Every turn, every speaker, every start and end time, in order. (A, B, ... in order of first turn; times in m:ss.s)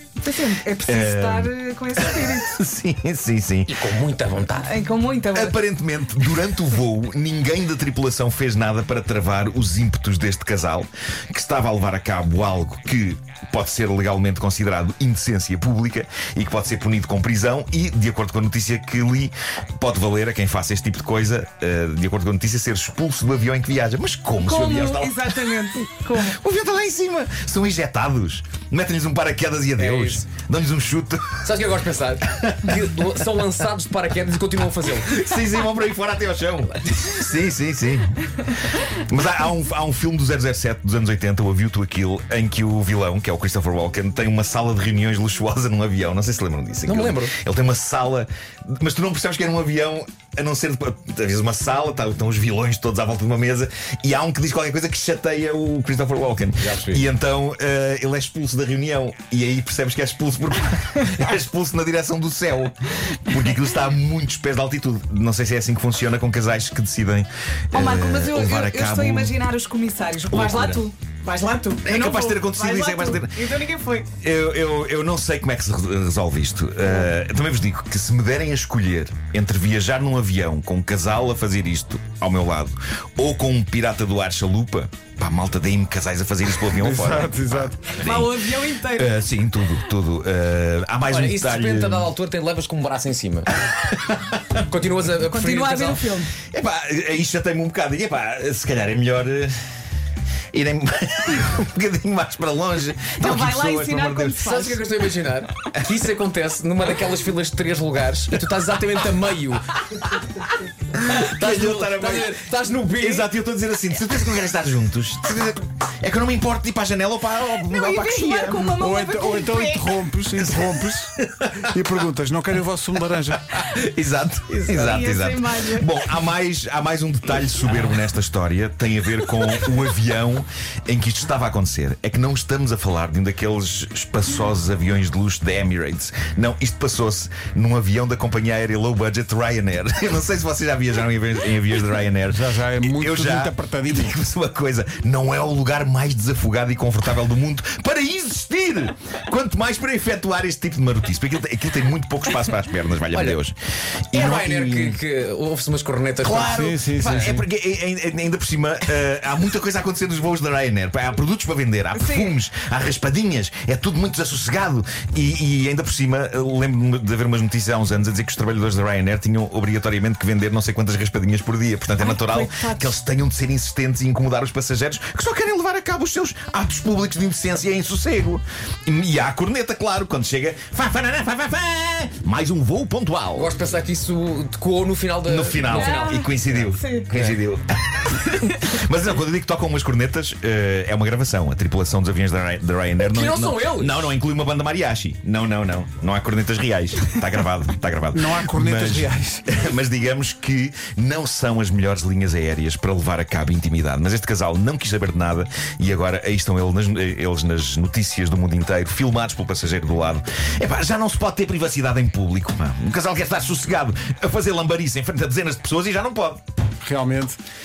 0:00.2-0:02.5 A
0:00.9-0:03.8 B
0:03.7-0:04.7 C
0:04.6-0:05.6 A
0:05.3-0:31.5 B
0:24.4-0:26.4 A
0:29.8-0:30.3 C
0:31.4-0:35.2 C
0:32.3-0:32.8 B
0:35.0-1:09.4 B
0:46.8-0:47.4 C
0:56.6-0:57.1 C
1:07.7-1:14.1 A
1:10.3-1:10.8 B
1:11.8-1:13.4 B
1:14.2-1:32.1 B
1:26.7-1:28.0 D
1:28.0-1:29.2 A
1:31.1-1:33.5 C
1:33.7-1:34.4 B
1:34.6-1:36.1 C
1:35.3-1:36.4 A
1:36.5-1:39.5 B
1:40.5-1:44.4 B
1:43.0-1:44.8 A
1:44.4-1:49.8 C
1:51.0-1:52.4 B
1:51.1-1:53.3 C
1:52.9-1:58.8 B
1:57.6-2:00.0 A
1:58.8-2:03.5 D
2:00.4-2:01.7 B
2:03.3-2:33.6 B
2:04.6-2:05.9 A
2:22.3-2:24.2 D
2:33.1-2:33.4 C
2:34.1-2:35.0 B
2:34.1-2:37.2 C
2:36.2-3:03.5 B
2:36.4-2:37.5 D
2:42.0-2:42.3 A
2:52.0-2:52.9 A
3:03.4-3:07.4 C
3:05.2-3:36.4 B
3:05.6-3:06.3 A
3:06.8-3:07.1 A
3:13.0-3:14.1 C
3:18.1-3:19.5 D
3:36.8-3:37.4 D